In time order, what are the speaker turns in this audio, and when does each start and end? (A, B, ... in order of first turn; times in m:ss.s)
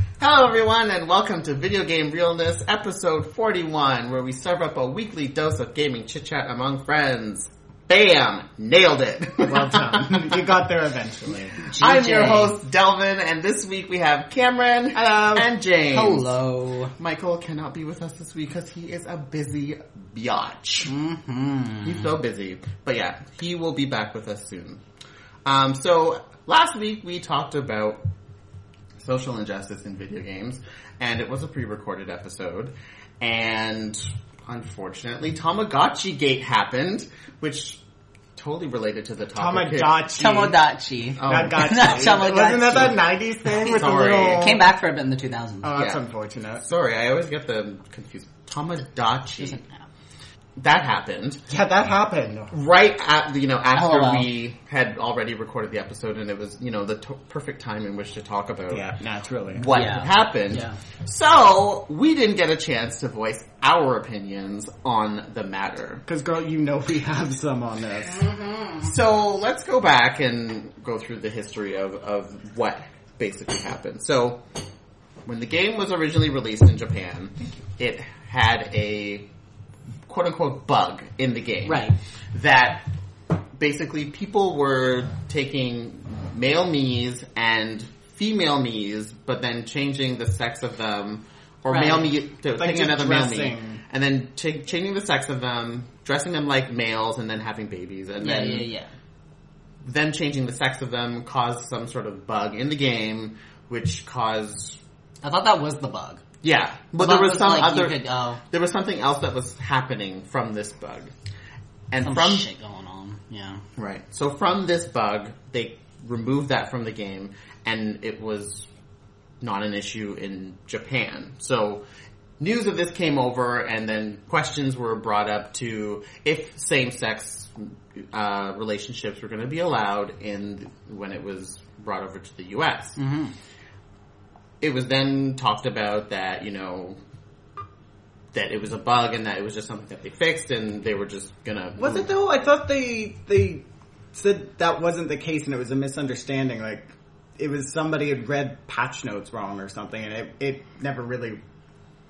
0:00.2-0:10.2 A
0:09.4-0:11.6 B
0:11.6-0:12.6 C
0:11.8-0:16.3 A
0:15.0-0:15.5 B
0:15.9-0:17.0 C
0:17.0-0:20.9 A
0:20.9-0:22.1 C
0:21.8-0:24.8 A
0:25.4-0:28.0 A
0:29.0-0:37.8 A
0:38.4-0:40.1 A
0:39.4-0:40.6 B
0:40.1-0:43.0 C
0:41.2-0:41.8 A
0:41.2-0:44.7 B
0:43.6-0:44.6 A
0:44.3-0:45.9 C
0:45.6-0:46.6 B
0:46.6-0:49.6 A
0:49.4-0:49.8 C
0:50.6-0:51.5 A
0:51.5-0:52.5 B
0:52.5-0:58.8 A
0:53.8-0:54.3 C
0:58.7-0:59.7 B
0:59.5-1:06.0 A
0:59.7-1:00.8 C
1:06.1-1:08.2 B
1:08.5-1:08.8 C
1:08.8-1:14.4 A
1:15.3-1:19.2 A
1:20.1-1:22.9 A
1:21.6-1:22.0 C
1:23.6-1:38.7 A
1:31.7-1:32.1 C
1:32.5-1:33.8 B
1:38.2-1:38.9 C
1:39.8-1:44.8 A
1:45.2-1:46.2 C
1:46.4-1:51.1 A
1:47.0-1:48.4 C
1:51.9-1:52.4 A
1:52.0-1:53.6 C
1:53.8-1:58.7 A
1:59.4-2:01.8 A
2:02.4-2:13.0 A
2:13.0-2:13.3 C
2:14.6-2:17.0 A
2:18.3-2:22.1 A
2:21.8-2:31.4 B